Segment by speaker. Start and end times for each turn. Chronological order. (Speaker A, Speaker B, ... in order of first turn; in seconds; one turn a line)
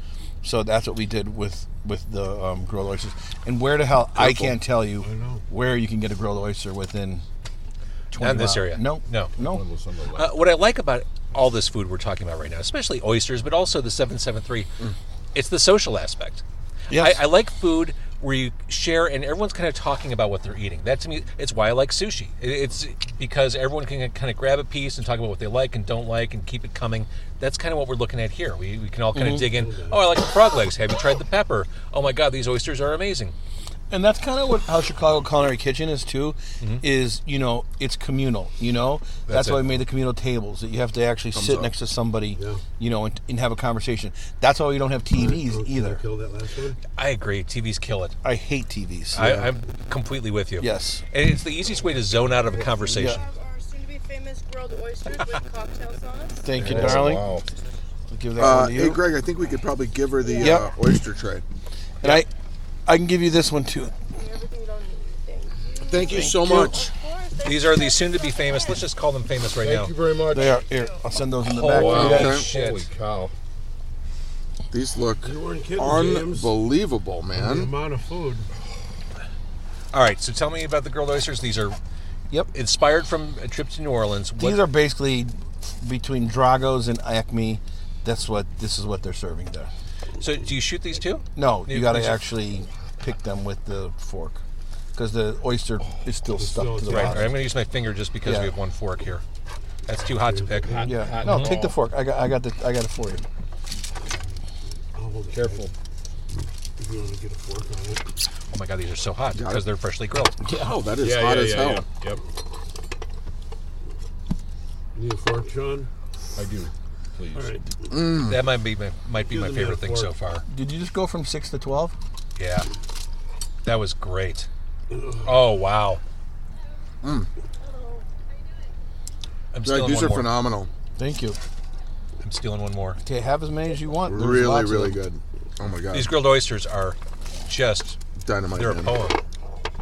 Speaker A: 0.4-7.2
Speaker B: 4.2-4.5
Speaker C: 5.0-5.4
Speaker A: 8.1-9.6
Speaker D: 8.1-9.3
Speaker E: 9.4-10.4
Speaker D: 10.1-14.7
Speaker D: 15.3-33.3
Speaker A: 16.9-17.2
Speaker A: 29.1-29.5
Speaker C: 29.5-30.0
Speaker A: 33.9-46.0
Speaker D: 39.3-39.8
Speaker B: 41.3-41.7
Speaker C: 42.4-42.6
Speaker C: 45.1-46.8
Speaker D: 47.0-48.1
Speaker A: 48.2-49.2
Speaker D: 49.1-53.2
Speaker B: 49.2-49.5
Speaker A: 50.6-51.0
Speaker F: 52.9-56.5
Speaker A: 52.9-53.2
Speaker A: 56.4-57.3
Speaker E: 56.6-57.5
Speaker A: 58.1-59.0
Speaker B: 58.4-61.4
Speaker F: 60.2-60.7
Speaker A: 60.4-60.7
Speaker A: 62.0-62.3
Speaker A: 62.9-63.9
Speaker F: 64.1-68.9
Speaker B: 65.8-66.9
Speaker A: 66.0-66.7
Speaker D: 67.4-69.9
Speaker E: 69.5-70.6
Speaker A: 70.3-72.4
Speaker F: 70.3-71.0
Speaker D: 71.5-72.9
Speaker E: 71.7-73.3
Speaker B: 72.0-72.5
Speaker B: 74.7-77.7
Speaker C: 75.2-76.5
Speaker C: 77.3-78.5
Speaker D: 79.9-81.8
Speaker D: 82.5-84.6
Speaker A: 84.4-89.7
Speaker D: 90.2-92.2
Speaker A: 91.3-94.4
Speaker A: 94.9-97.4
Speaker C: 96.3-97.3
Speaker D: 96.9-99.2
Speaker A: 98.2-98.5
Speaker D: 99.8-101.5
Speaker C: 100.0-101.1
Speaker E: 100.6-101.8
Speaker A: 100.8-103.2
Speaker C: 104.9-105.7
Speaker E: 105.3-105.7
Speaker C: 106.8-108.0
Speaker D: 108.5-110.4
Speaker B: 109.3-109.6
Speaker A: 110.4-110.7
Speaker B: 110.5-111.8
Speaker E: 111.0-112.2
Speaker C: 114.9-115.9
Speaker E: 116.3-117.6
Speaker C: 117.3-117.7
Speaker B: 117.9-118.4
Speaker D: 118.2-120.4
Speaker C: 119.2-120.1
Speaker A: 120.5-121.9
Speaker D: 122.4-122.7
Speaker D: 123.6-124.5
Speaker C: 124.9-125.3
Speaker D: 125.2-126.0
Speaker B: 127.0-127.3
Speaker F: 127.6-128.1
Speaker D: 129.5-130.3
Speaker B: 129.6-130.7
Speaker A: 131.0-131.4
Speaker D: 132.2-133.0
Speaker A: 133.0-135.0
Speaker B: 134.1-136.2
Speaker D: 135.9-138.0
Speaker B: 138.2-139.0
Speaker D: 138.5-139.2